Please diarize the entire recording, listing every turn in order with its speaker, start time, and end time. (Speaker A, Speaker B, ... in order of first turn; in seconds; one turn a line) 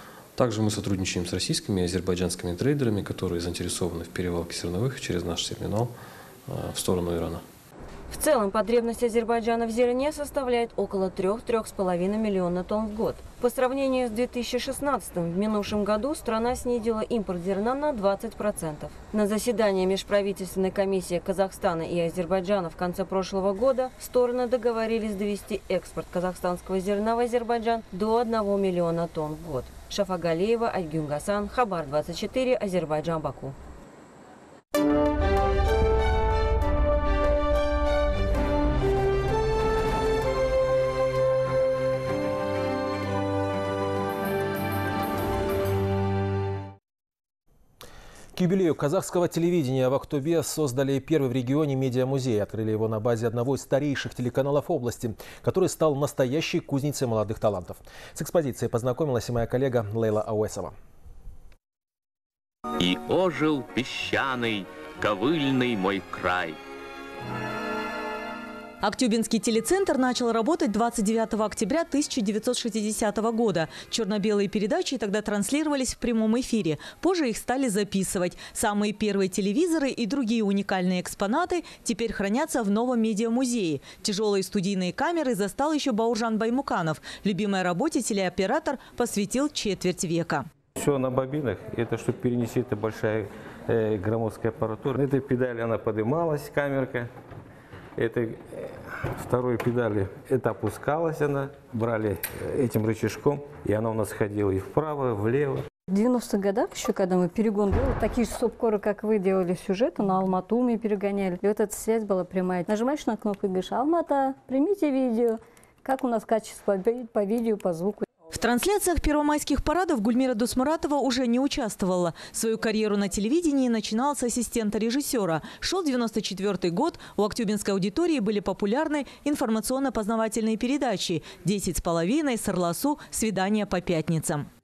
Speaker A: 0.3-5.9
Speaker A: 6.5-7.4
Speaker B: 8.1-33.5
Speaker C: 48.4-60.7
Speaker D: 62.9-64.4
Speaker E: 63.1-63.4
Speaker E: 64.2-64.5
Speaker D: 65.1-66.2
Speaker F: 68.8-90.5
Speaker E: 90.8-97.1
Speaker E: 98.0-105.7
Speaker G: 105.9-118.0
Speaker F: 118.3-134.4